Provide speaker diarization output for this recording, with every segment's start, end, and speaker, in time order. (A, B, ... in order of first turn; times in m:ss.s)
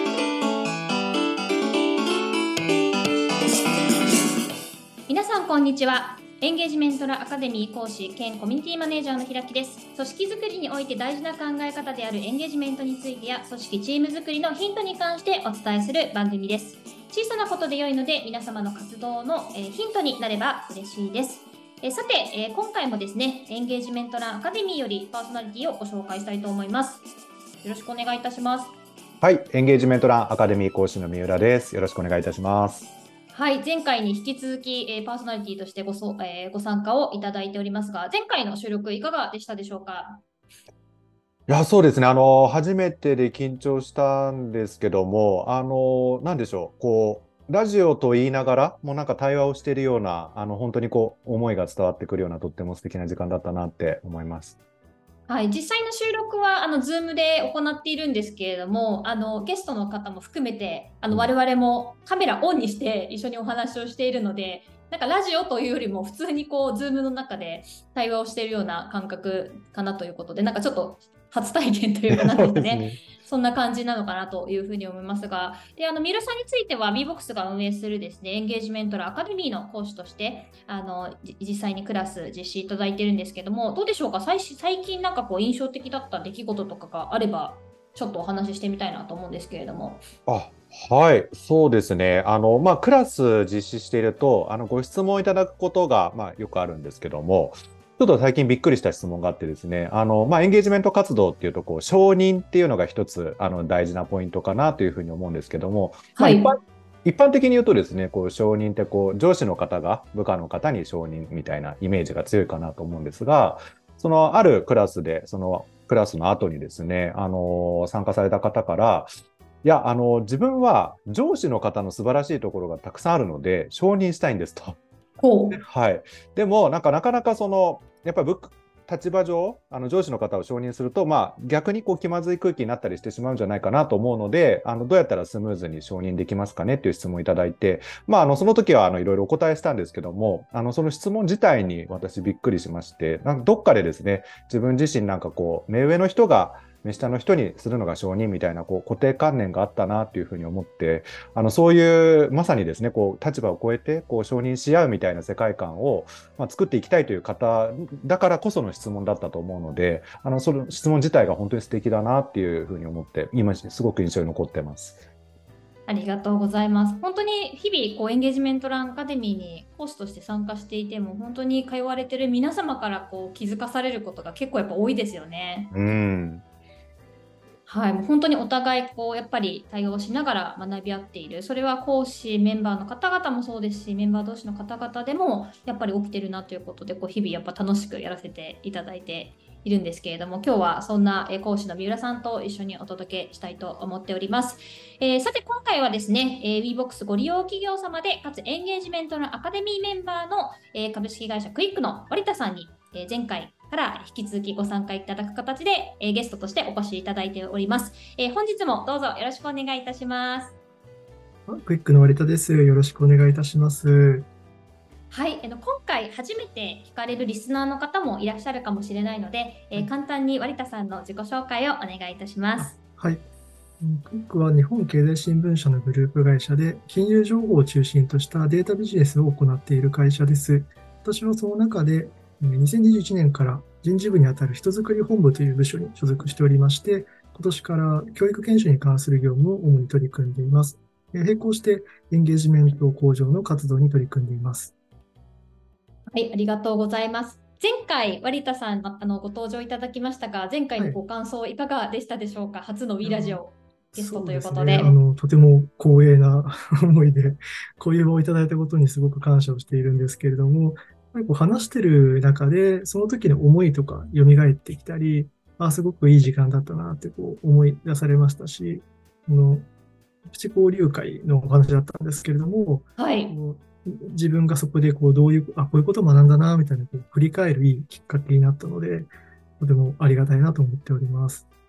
0:05.1-0:27.0 A
0:27.6-0:28.7 A
0:29.2-0:32.9 B
0:33.3-0:40.2 A
0:41.5-0:54.6 B
0:55.3-1:30.0 A
1:12.1-1:13.0 B
1:30.3-1:59.1 B
1:46.2-1:46.5 A
1:59.6-2:04.8 B
2:05.2-2:05.6 A
2:05.5-2:45.0 B
2:45.9-2:55.7 A
2:55.7-2:56.4 B
2:57.7-3:30.6 A
3:31.5-3:34.3 C
3:35.1-3:42.8 A
3:42.6-3:43.2 C
3:43.8-4:04.7 C
4:06.1-4:15.0 A
4:13.0-4:13.4 C
4:13.9-4:29.7 C
4:30.3-4:41.4 C
4:33.0-4:33.4 A